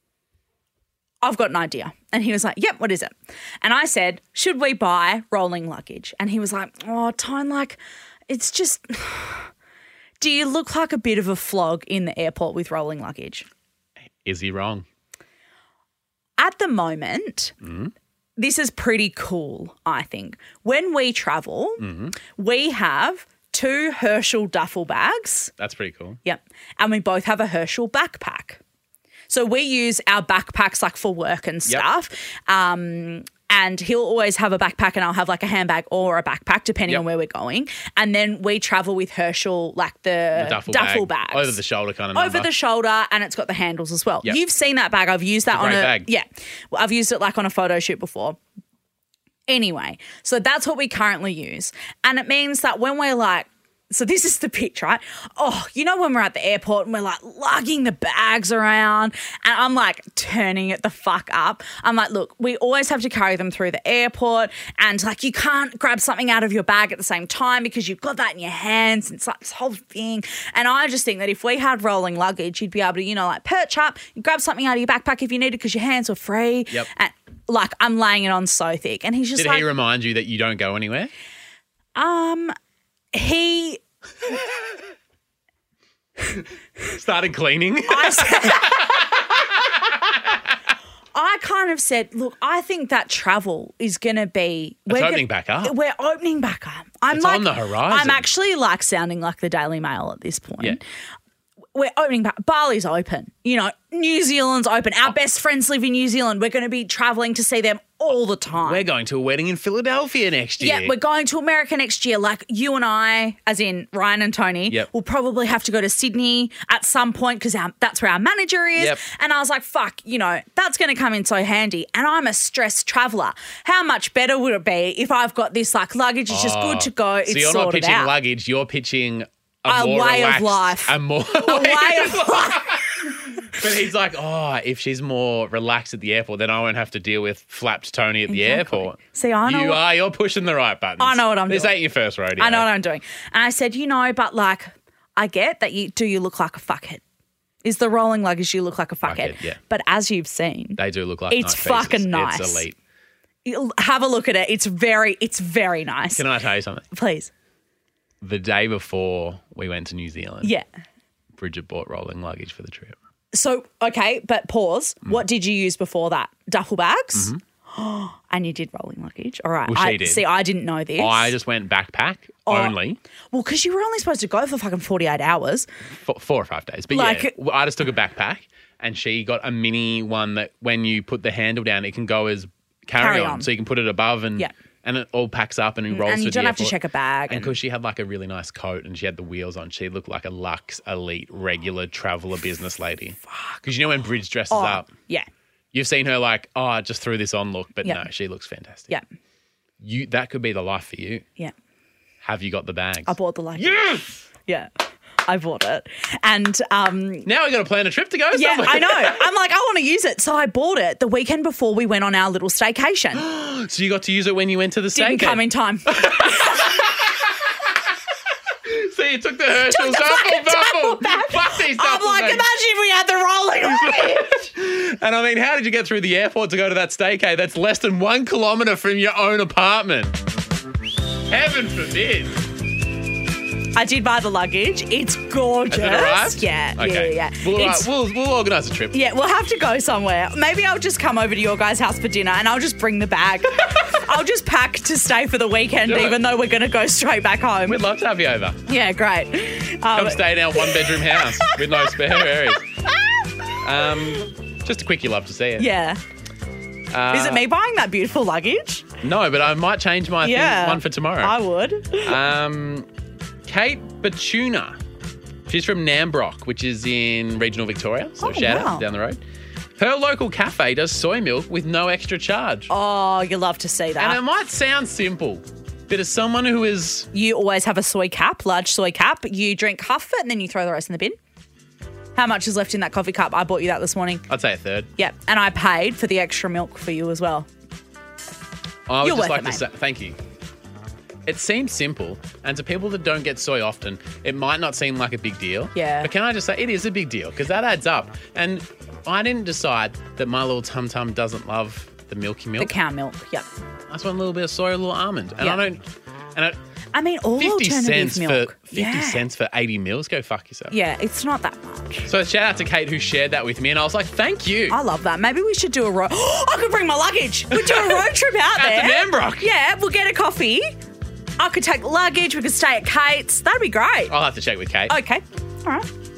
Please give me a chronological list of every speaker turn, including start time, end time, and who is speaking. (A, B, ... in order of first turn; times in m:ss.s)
0:01.2-0:07.8 A
0:08.3-0:09.5 A
0:10.2-0:13.4 A
0:14.2-0:14.8 B
0:16.4-0:17.6 A
0:17.6-0:17.9 B
0:18.4-0:25.5 A
0:21.8-0:22.1 B
0:25.6-0:26.2 B
0:26.2-0:28.6 A
0:29.3-0:41.6 A
0:40.4-0:42.5 B
0:42.1-0:48.4 A
0:45.5-0:46.1 B
0:49.5-1:19.7 A
1:19.4-1:21.1 B
1:21.9-1:22.5 A
1:23.1-1:23.8 A
1:26.8-1:30.2 B
1:27.9-1:28.9 A
1:31.1-1:40.8 A
1:34.9-1:35.7 B
1:37.1-1:38.2 B
1:41.7-1:48.9 A
1:48.6-1:50.9 B
1:50.6-2:08.1 A
1:58.8-1:59.0 B
2:06.3-2:22.7 B
2:09.7-2:13.4 A
2:18.3-2:19.8 A
2:21.0-2:21.8 A
2:22.4-2:27.0 A
2:27.6-2:32.6 A
2:29.0-2:29.6 B
2:30.8-2:32.8 B
2:33.4-2:36.2 A
2:36.1-2:36.8 B
2:36.9-2:37.3 A
2:38.2-2:40.5 B
2:41.4-2:43.0 B
2:43.3-2:51.3 A
2:47.1-2:47.4 B
2:49.7-2:50.3 B
2:51.0-2:53.0 B
2:52.4-2:52.8 A
2:53.3-2:55.7 A
2:55.9-3:06.8 B
2:56.9-2:57.3 A
3:03.0-3:03.5 A
3:05.9-3:07.5 A
3:07.3-3:14.9 B
3:13.3-3:13.6 A
3:14.5-3:15.3 A
3:15.7-3:18.9 B
3:19.8-3:21.2 B
3:22.2-3:24.2 B
3:23.0-3:24.7 A
3:25.2-3:27.3 A
3:27.2-3:29.2 B
3:28.3-3:33.2 A
3:33.1-3:37.6 B
3:34.9-3:36.8 A
3:38.6-3:42.4 B
3:39.6-3:44.4 A
3:43.6-3:50.2 B
3:51.3-3:52.5 B
3:53.7-3:57.9 A
3:55.7-3:58.9 B
3:58.9-4:07.8 A
4:05.8-4:06.2 B
4:07.6-4:08.6 B
4:08.6-4:12.3 A
4:09.9-4:12.7 B
4:13.6-4:15.7 B
4:15.6-4:16.0 A
4:16.9-4:17.4 B
4:17.1-4:18.8 A
4:19.0-4:21.4 B
4:20.2-4:22.2 A
4:22.0-4:22.9 B
4:23.4-4:24.8 B
4:25.5-4:29.2 B
4:28.2-4:28.8 A
4:29.8-4:32.7 B
4:32.7-4:34.2 A
4:34.0-4:37.1 B
4:37.1-4:41.2 A
4:42.1-4:44.2 A
4:44.3-4:44.9 B
4:45.0-4:47.5 A
4:48.9-4:50.2 B
4:49.0-4:49.6 A
4:51.2-5:02.7 B
4:55.7-4:56.1 A
5:02.6-5:03.5 A
5:03.9-5:05.8 B
5:06.9-5:09.2 A
5:07.4-5:10.7 B
5:10.7-5:12.1 A
5:12.1-5:14.8 B
5:14.7-5:20.7 A
5:17.5-5:19.5 B
5:21.4-5:24.1 A
5:24.1-5:24.9 B
5:24.9-5:25.9 A